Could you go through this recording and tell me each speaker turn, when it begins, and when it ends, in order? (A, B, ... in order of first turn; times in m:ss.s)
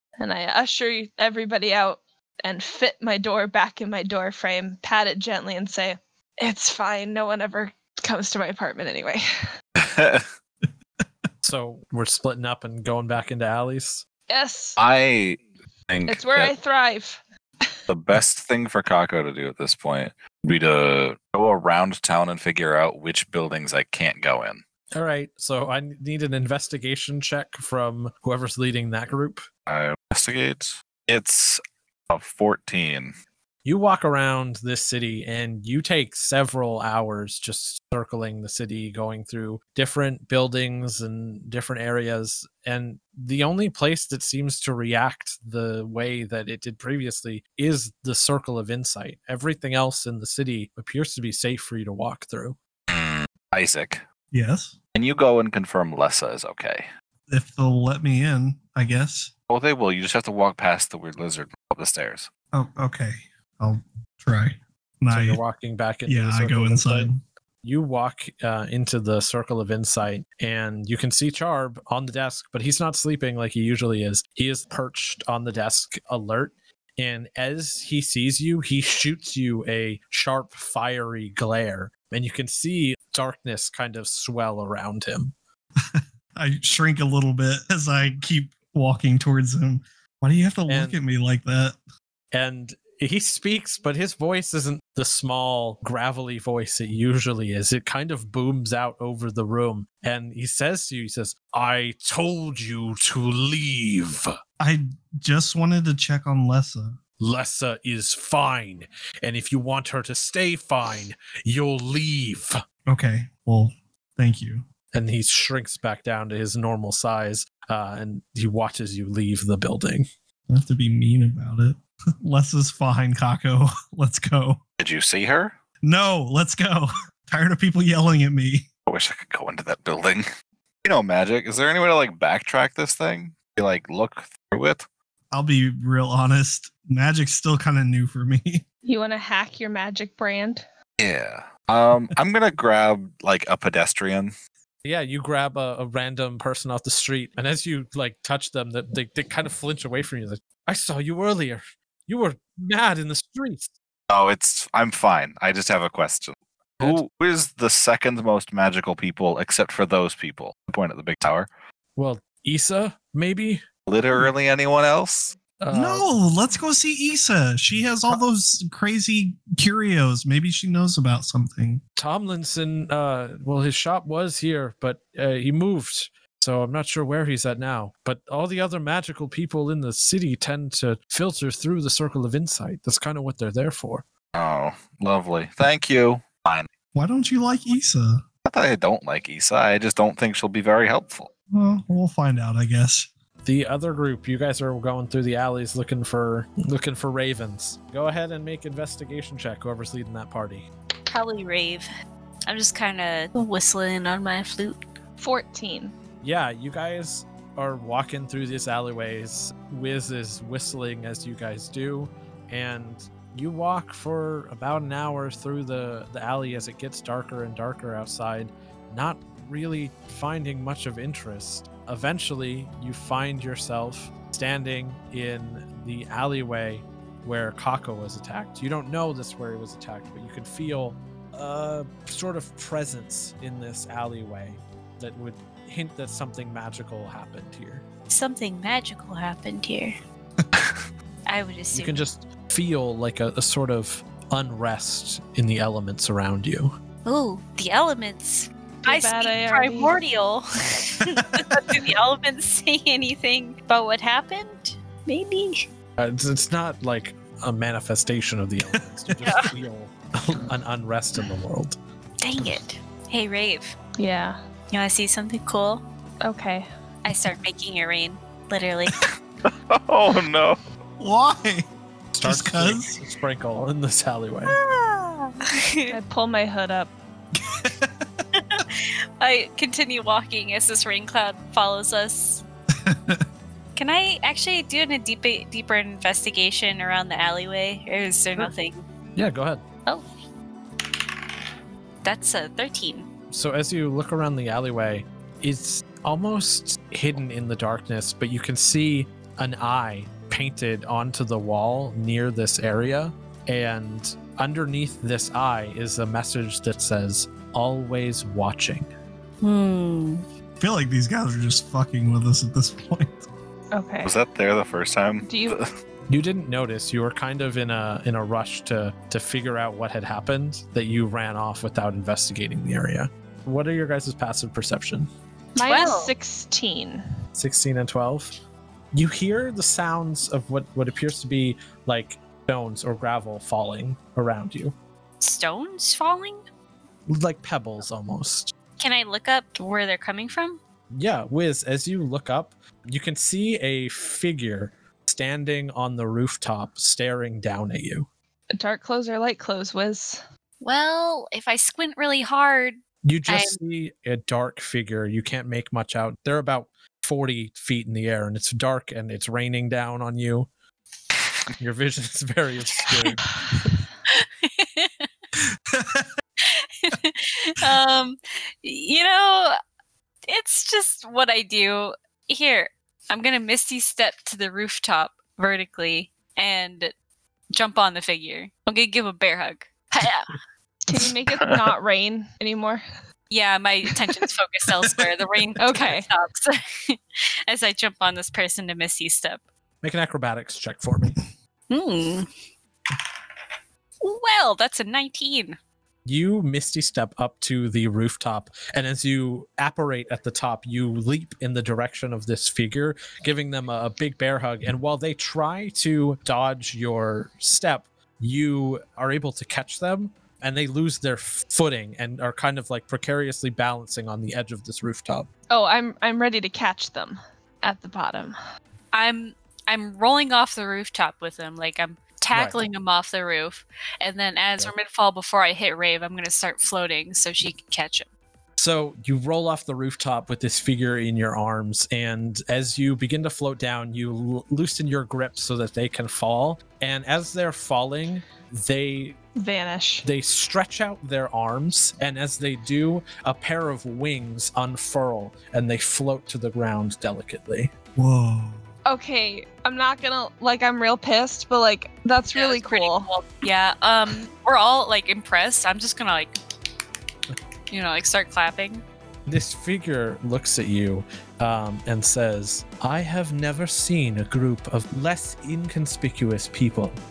0:00.2-0:09.2 A
0:09.8-0:10.3 B
0:11.4-0:14.0 C
0:14.3-0:14.8 A
0:14.8-0:16.5 B
0:16.1-0:17.8 A
0:17.9-0:24.6 B
0:24.9-0:29.5 C
0:29.7-0:33.1 B
0:33.6-0:52.6 C
0:52.9-0:54.0 B
0:54.3-0:54.8 D
0:55.0-0:56.9 B
0:57.3-0:59.3 D
0:59.5-1:02.3 B
1:02.5-1:05.4 D
1:05.1-1:07.1 C
1:06.1-1:07.2 D
1:07.6-1:25.3 C
1:25.9-1:31.8 D
1:30.7-1:31.0 C
1:32.3-1:44.3 C
1:44.6-1:47.0 D
1:47.2-1:52.6 C
1:52.9-1:54.6 D
1:54.9-2:00.1 C
2:00.5-2:04.6 D
2:04.8-2:05.6 B
2:05.8-2:08.7 D
2:08.9-2:10.2 B
2:10.8-2:14.8 B
2:15.3-2:18.6 D
2:18.8-2:20.6 A
2:21.0-2:24.3 B
2:24.8-2:33.7 C
2:34.1-2:41.5 B
2:42.0-2:44.3 C
2:43.9-2:45.4 B
2:45.6-2:46.1 C
2:45.7-2:51.8 D
2:52.0-3:04.0 C
3:04.3-3:06.7 B
3:06.9-3:08.2 D
3:08.4-3:11.3 B
3:11.5-3:13.1 D
3:13.4-3:20.7 C
3:21.1-3:21.9 E
3:22.5-3:24.8 E
3:25.2-3:25.9 A
3:26.2-3:57.8 C
3:58.1-4:00.0 E
4:00.6-4:00.8 B
4:01.3-4:02.0 E
4:01.7-4:06.8 C
4:07.0-4:15.6 E
4:08.8-4:09.9 A
4:11.2-4:11.9 D
4:16.0-4:21.8 C
4:19.2-4:19.5 E
4:22.2-4:23.8 E
4:24.0-4:24.4 A
4:24.7-4:25.8 E
4:26.2-4:26.7 A
4:27.0-4:29.0 E
4:29.0-4:30.6 B
4:31.0-4:31.7 D
4:32.1-4:34.6 C
4:32.2-4:33.0 D
4:34.5-4:36.0 E
4:35.9-4:36.9 A
4:37.4-4:38.2 D
4:38.4-4:42.4 E
4:42.8-4:43.3 D
4:43.8-4:48.8 E
4:49.2-4:49.6 C
4:52.0-4:53.1 E
4:53.3-5:08.9 C
5:09.4-5:10.2 E
5:10.6-5:13.3 D
5:13.7-5:14.1 A
5:14.0-5:15.7 B
5:15.2-5:15.6 A
5:16.1-5:25.1 C
5:25.6-5:27.0 A
5:25.6-5:26.1 E
5:27.3-5:28.4 C
5:28.9-5:34.8 C
5:35.2-5:36.4 E
5:37.1-5:38.5 C
5:38.8-5:40.6 E
5:40.9-5:48.1 C
5:48.6-5:50.2 A
5:50.6-5:53.6 E
5:53.0-6:00.5 C
6:01.6-6:03.7 C
6:04.1-6:05.1 E
6:05.7-6:06.1 D
6:06.4-6:09.6 E
6:10.3-6:16.9 E
6:17.5-6:20.4 E
6:20.9-6:22.8 A
6:21.4-6:21.7 B
6:23.3-6:29.4 E
6:25.6-6:26.1 A
6:29.8-6:31.2 C
6:31.7-6:32.3 E
6:34.0-6:35.6 E
6:36.0-6:55.3 C
6:55.5-6:58.4 A
6:58.9-7:08.1 E
7:02.3-7:02.6 C
7:08.6-7:19.2 C
7:19.4-7:20.0 A
7:20.0-7:27.7 C
7:28.0-7:28.6 D
7:28.9-7:33.1 A
7:32.4-7:36.4 E
7:37.7-7:38.8 E
7:39.3-7:47.0 C